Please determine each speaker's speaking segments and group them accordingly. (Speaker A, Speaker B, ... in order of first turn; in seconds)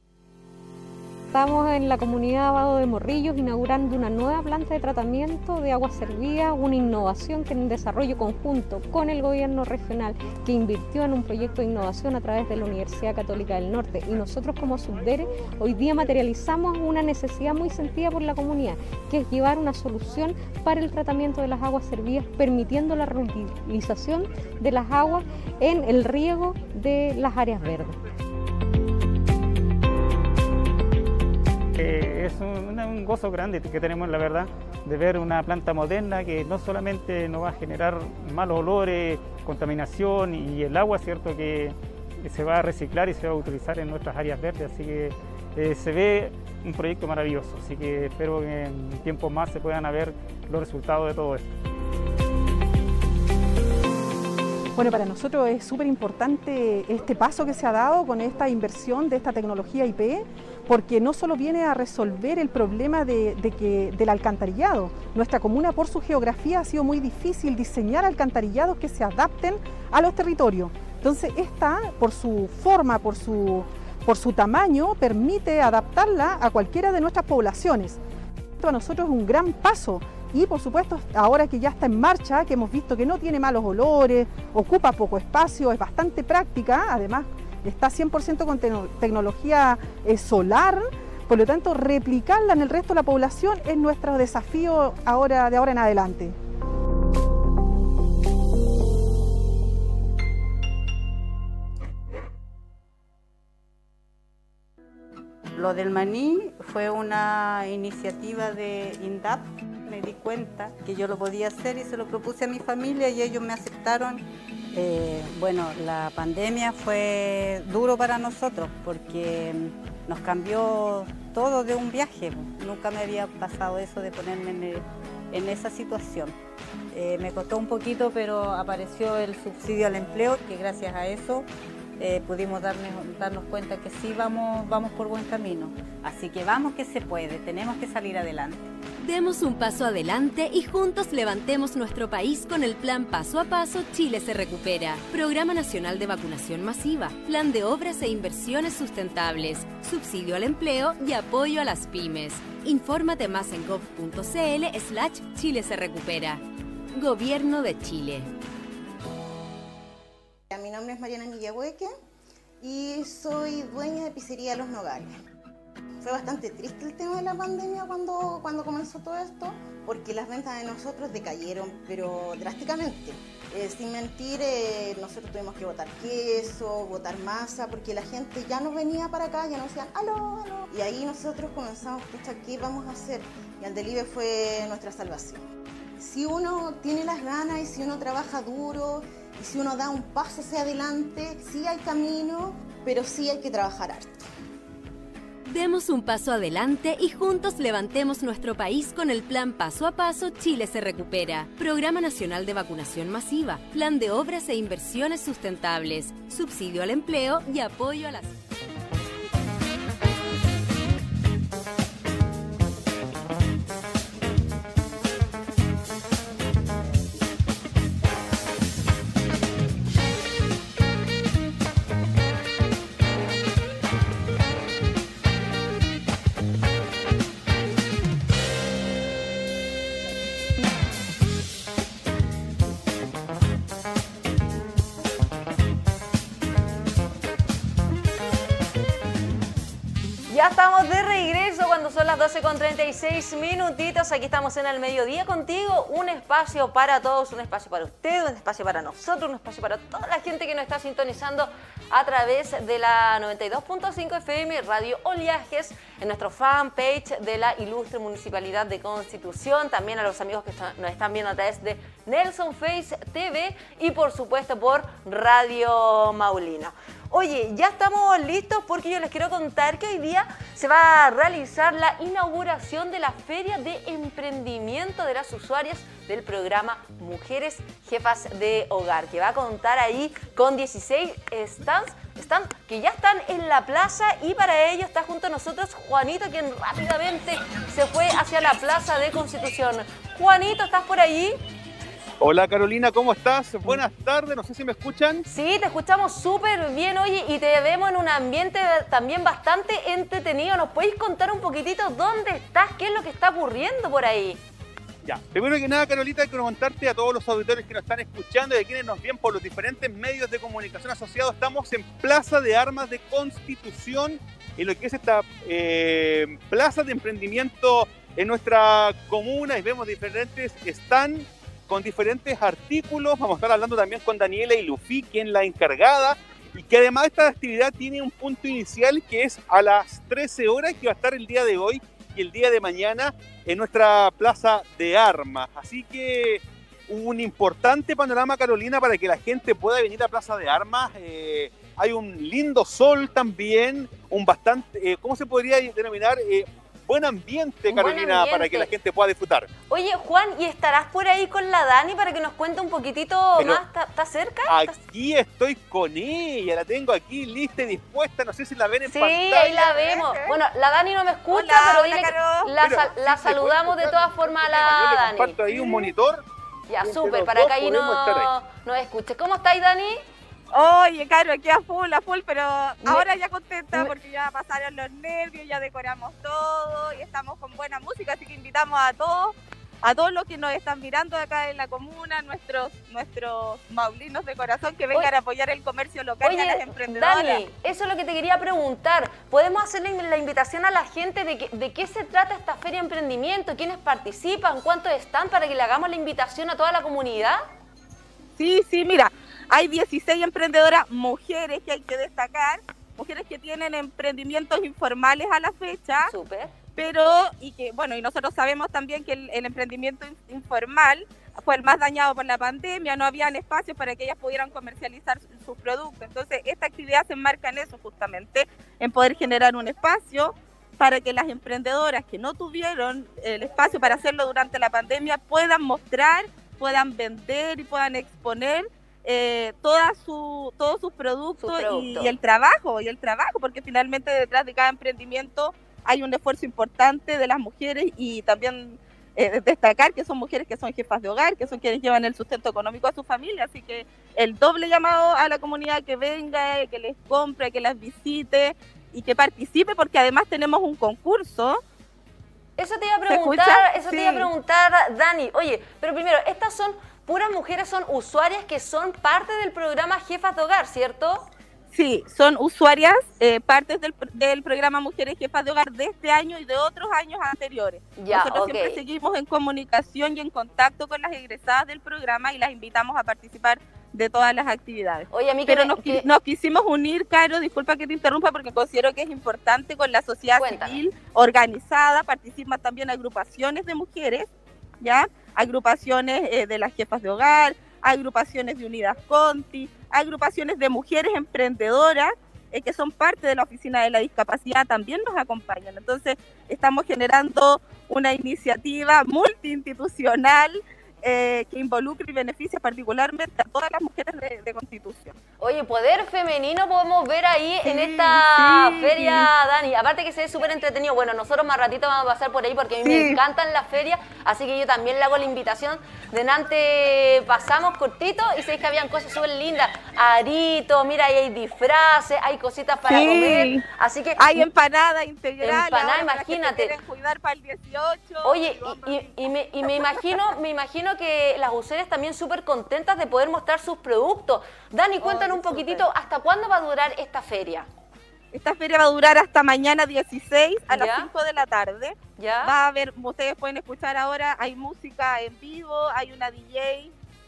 Speaker A: 1.3-28.0
Speaker B: 31.7-51.5
Speaker C: 54.8-78.0, 78.6-96.4
Speaker D: 105.5-126.3, 126.9-131.5, 132.0-138.6
Speaker E: 139.0-156.4, 156.9-158.3, 195.5-208.3
Speaker F: 160.5-161.9, 162.6-165.1, 166.0-185.4, 186.0-194.2
Speaker G: 240.3-291.4, 295.3-304.4, 347.7-348.7, 349.7-354.7, 358.9-365.9, 366.7-370.0, 386.2-397.4, 406.1-406.5, 431.4-432.1, 452.6-461.2, 468.0-468.8, 475.1-476.1, 480.4-480.8, 505.4-524.4, 525.4-526.8, 528.2-537.7, 540.7-541.1, 542.2-542.5
Speaker H: 292.2-295.2, 305.0-349.5, 353.4-353.6, 354.5-359.2, 362.6-366.2, 366.8-368.3
Speaker I: 359.3-360.4, 361.3-362.5, 370.5-387.4, 398.4-406.1, 406.7-451.6, 453.1-454.3, 461.7-484.3, 484.8-505.1, 507.6-509.3, 512.8-513.2, 522.9-523.6, 524.2-530.3, 535.0-535.9, 538.3-546.9